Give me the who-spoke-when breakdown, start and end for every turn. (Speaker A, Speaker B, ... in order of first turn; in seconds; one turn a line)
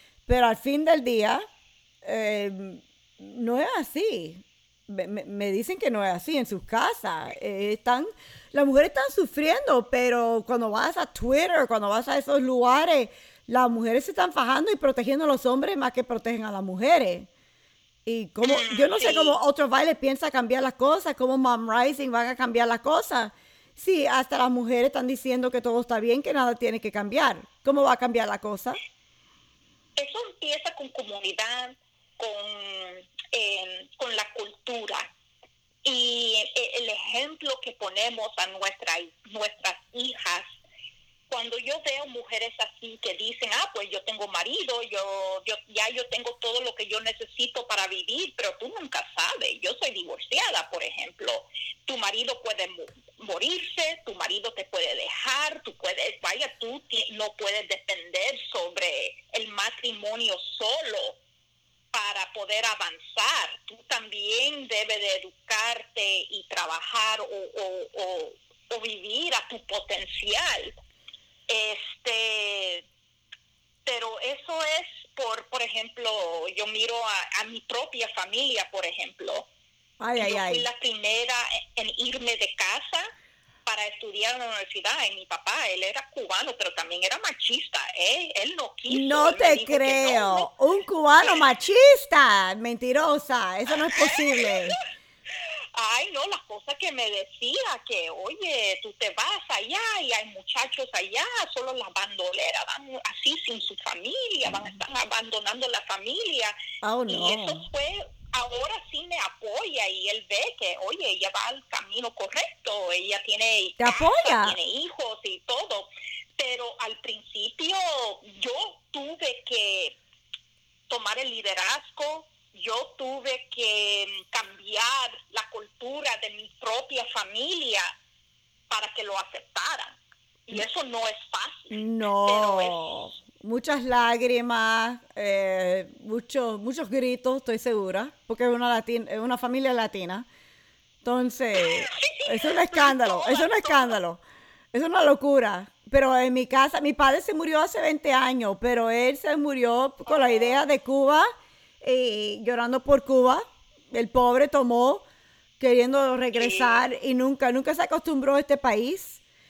Speaker A: 0.3-1.4
Speaker A: 2.0-17.3
Speaker A: 18.1-28.8
Speaker B: 18.4-19.4
Speaker B: 29.9-35.1
Speaker B: 35.8-40.6
Speaker B: 41.3-61.2
Speaker B: 61.9-70.8
Speaker B: 71.5-72.8
Speaker B: 73.8-79.5
Speaker A: 80.0-80.7
Speaker B: 80.2-83.1
Speaker B: 83.7-90.5
Speaker A: 88.9-94.8
Speaker B: 94.0-94.6
Speaker B: 95.7-106.5
Speaker A: 106.8-107.7
Speaker B: 107.1-120.0
Speaker A: 113.8-114.6
Speaker B: 120.9-127.9
Speaker B: 128.7-133.0
Speaker A: 131.7-140.3
Speaker A: 141.0-144.2
Speaker B: 141.6-144.0
Speaker A: 144.7-151.3
Speaker B: 150.1-150.6
Speaker A: 151.8-155.1
Speaker A: 155.6-159.2
Speaker B: 156.3-156.8